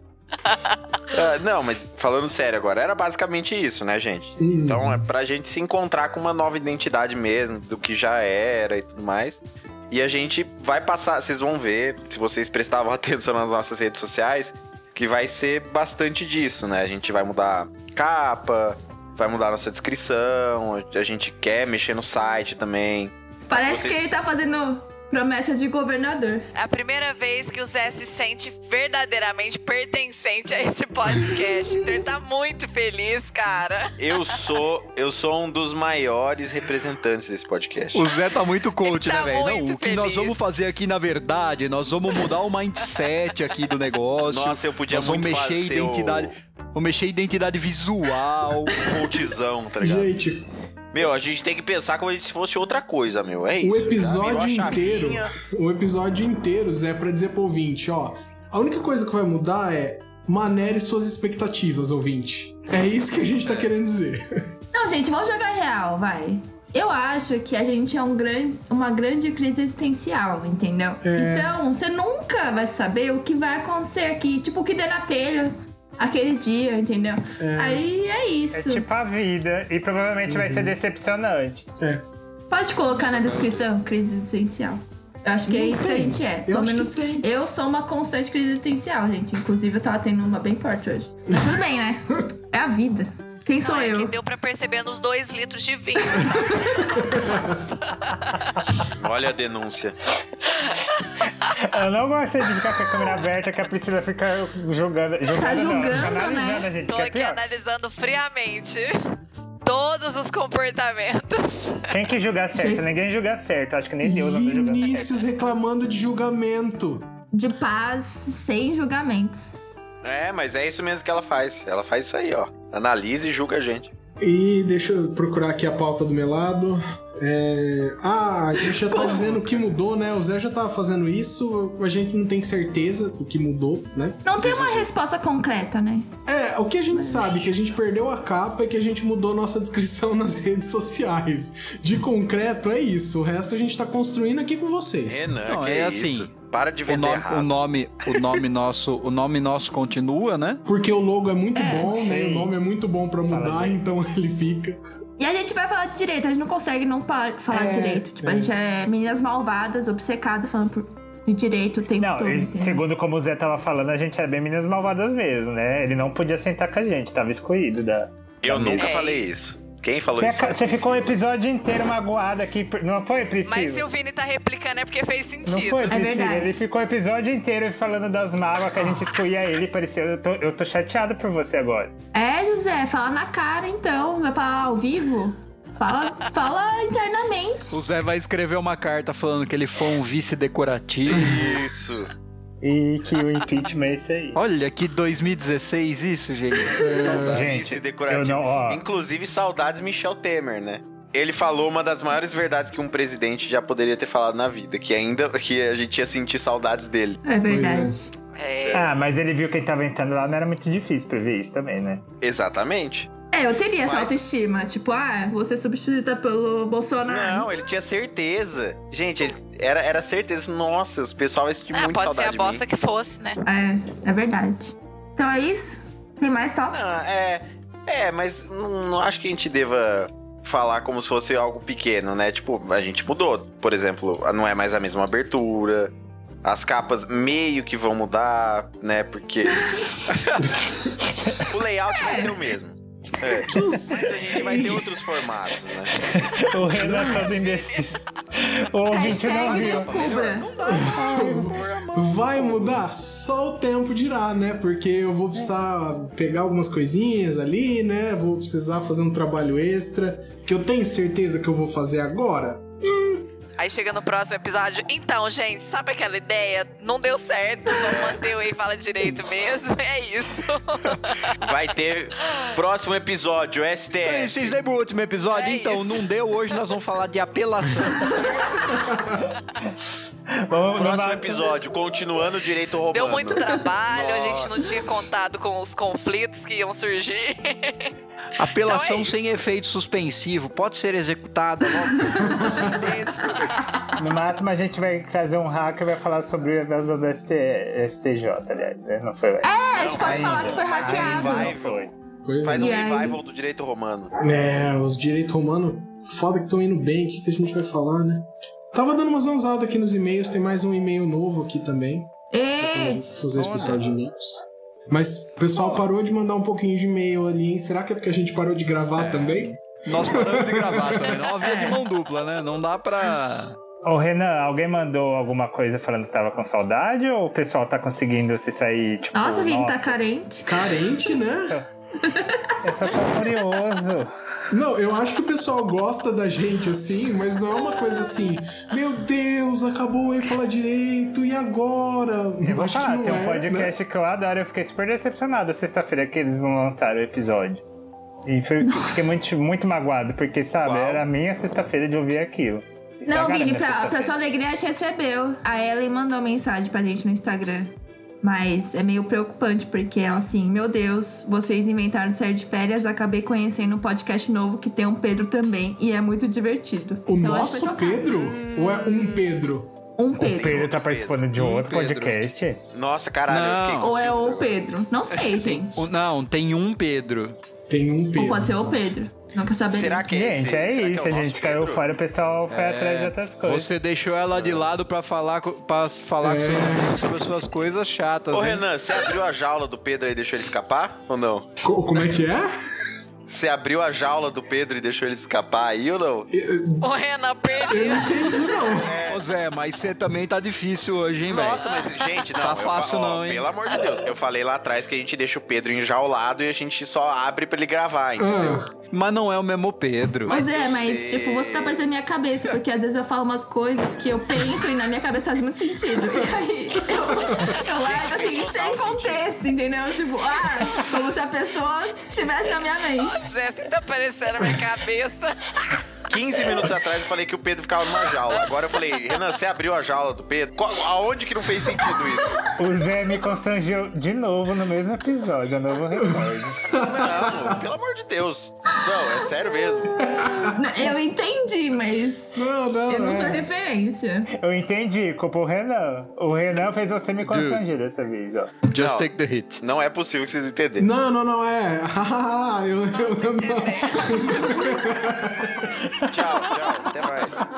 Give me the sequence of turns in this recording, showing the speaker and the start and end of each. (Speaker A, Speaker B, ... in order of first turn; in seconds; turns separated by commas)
Speaker A: 0.5-0.8, Speaker B: 1.1-24.1, Speaker C: 4.4-5.1, Speaker D: 23.4-26.5, Speaker A: 26.5-34.4, Speaker B: 34.0-38.1, Speaker E: 37.9-48.9, Speaker A: 38.8-40.5, Speaker B: 44.2-46.3, Speaker B: 48.8-50.1, Speaker C: 49.8-50.5, Speaker B: 50.9-55.3, Speaker C: 53.6-64.2, Speaker D: 64.7-78.8, Speaker C: 71.0-71.5, Speaker C: 77.4-77.8, Speaker F: 78.5-81.6, Speaker C: 80.2-80.7, Speaker D: 82.5-94.1, Speaker C: 85.5-87.3, Speaker C: 91.3-91.6, Speaker A: 93.6-98.4, Speaker C: 97.0-97.5, Speaker B: 98.9-99.9, Speaker F: 101.6-107.4, Speaker D: 105.3-106.7, Speaker A: 106.9-111.9, Speaker F: 111.9-115.2, Speaker D: 112.5-112.8, Speaker C: 114.0-117.1, Speaker D: 117.3-119.5, Speaker B: 120.0-123.9, Speaker C: 124.2-134.5, Speaker D: 128.6-129.2, Speaker E: 129.1-129.7, Speaker D: 134.2-136.1, Speaker E: 134.4-134.9, Speaker C: 136.2-145.3, Speaker D: 136.9-137.7, Speaker B: 145.0-147.6, Speaker E: 145.4-146.3, Speaker E: 146.9-150.6, Speaker C: 150.7-154.8, Speaker D: 151.5-151.9, Speaker F: 151.9-152.5, Speaker F: 153.3-153.8, Speaker D: 155.2-162.8, Speaker C: 157.5-158.5, Speaker F: 162.0-168.9, Speaker B: 168.4-171.2, Speaker A: 168.8-169.3, Speaker F: 170.2-173.8, Speaker A: 173.5-176.1, Speaker F: 175.4-181.9, Speaker D: 175.8-176.6, Speaker D: 182.1-187.8, Speaker E: 187.7-191.5, Speaker B: 191.1-192.1, Speaker F: 192.6-194.4, Speaker E: 194.3-197.5, Speaker C: 196.7-197.5, Speaker B: 197.0-207.2, Speaker F: 197.3-198.8, Speaker D: 207.2-208.1, Speaker C: 207.4-208.0, Speaker A: 208.3-208.9, Speaker F: 208.7-212.0, Speaker B: 212.2-213.1, Speaker D: 213.3-217.5, Speaker B: 213.8-214.2, Speaker B: 217.1-222.6, Speaker A: 221.7-223.4, Speaker D: 223.4-226.8, Speaker B: 226.7-235.9, Speaker B: 236.4-239.6, Speaker B: 240.1-240.5, Speaker B: 241.4-245.9, Speaker D: 241.9-242.4, Speaker C: 243.4-245.1, Speaker F: 246.1-249.9, Speaker C: 246.6-247.3, Speaker A: 247.1-248.0, Speaker D: 248.8-250.5, Speaker E: 249.3-252.8, Speaker B: 249.6-250.5, Speaker C: 250.6-263.2, Speaker F: 250.9-251.6, Speaker A: 263.6-271.4, Speaker B: 267.8-268.2, Speaker B: 271.4-274.6, Speaker E: 274.0-278.6, Speaker A: 275.3-276.6, Speaker C: 278.8-279.1, Speaker F: 280.3-281.5, Speaker B: 280.8-284.8, Speaker A: 282.9-287.9, Speaker E: 288.4-293.4, Speaker A: 288.6-289.2, Speaker D: 291.9-292.2, Speaker C: 292.1-292.8, Speaker F: 294.0-301.9, Speaker D: 299.4-301.5, Speaker B: 299.7-301.9, Speaker C: 302.2-302.8, Speaker B: 302.4-304.1, Speaker D: 302.6-303.2, Speaker C: 304.2-321.2, Speaker D: 312.3-313.0, Speaker E: 313.3-313.8, Speaker E: 319.0-323.6, Speaker D: 321.4-321.8, Speaker F: 323.9-330.0, Speaker D: 329.1-330.6, Speaker C: 330.4-331.6, Speaker D: 332.0-332.5, Speaker F: 332.6-334.1, Speaker C: 334.5-343.7, Speaker F: 342.4-347.6, Speaker F: 348.2-354.1, Speaker D: 348.6-349.0, Speaker B: 350.6-351.0, Speaker D: 353.0-368.1, Speaker C: 367.1-369.7, Speaker B: 368.2-369.3, Speaker D: 370.0-370.6, Speaker B: 370.2-371.3, Speaker F: 370.2-372.6, Speaker E: 371.4-372.2, Speaker B: 372.7-374.5, Speaker E: 373.3-373.9, Speaker D: 373.8-375.9, Speaker E: 375.1-377.4, Speaker C: 377.7-378.9, Speaker D: 378.1-380.1, Speaker B: 379.7-381.9, Speaker F: 380.1-383.7, Speaker E: 382.5-388.6, Speaker B: 384.3-384.7, Speaker C: 386.2-387.1, Speaker B: 388.3-391.5, Speaker C: 391.6-392.5, Speaker B: 393.3-396.3, Speaker C: 396.3-396.9, Speaker A: 396.8-398.5, Speaker C: 397.6-399.0, Speaker B: 398.7-399.3, Speaker E: 399.1-401.6, Speaker B: 401.2-408.7, Speaker A: 401.5-402.1, Speaker E: 402.4-403.4, Speaker C: 408.2-408.7, Speaker E: 408.9-410.3, Speaker B: 410.3-411.8, Speaker D: 410.3-423.2, Speaker B: 417.7-419.3, Speaker A: 423.0-425.7, Speaker B: 426.1-432.4, Speaker A: 428.0-428.4, Speaker F: 432.6-436.6, Speaker C: 435.9-437.6, Speaker B: 436.8-440.0, Speaker C: 440.0-440.9, Speaker D: 440.5-444.3, Speaker C: 442.3-443.5, Speaker F: 444.3-448.6, Speaker E: 447.2-447.6, Speaker E: 448.7-449.6, Speaker B: 448.7-450.9, Speaker C: 450.8-455.8, Speaker A: 453.2-454.6, Speaker B: 456.1-457.4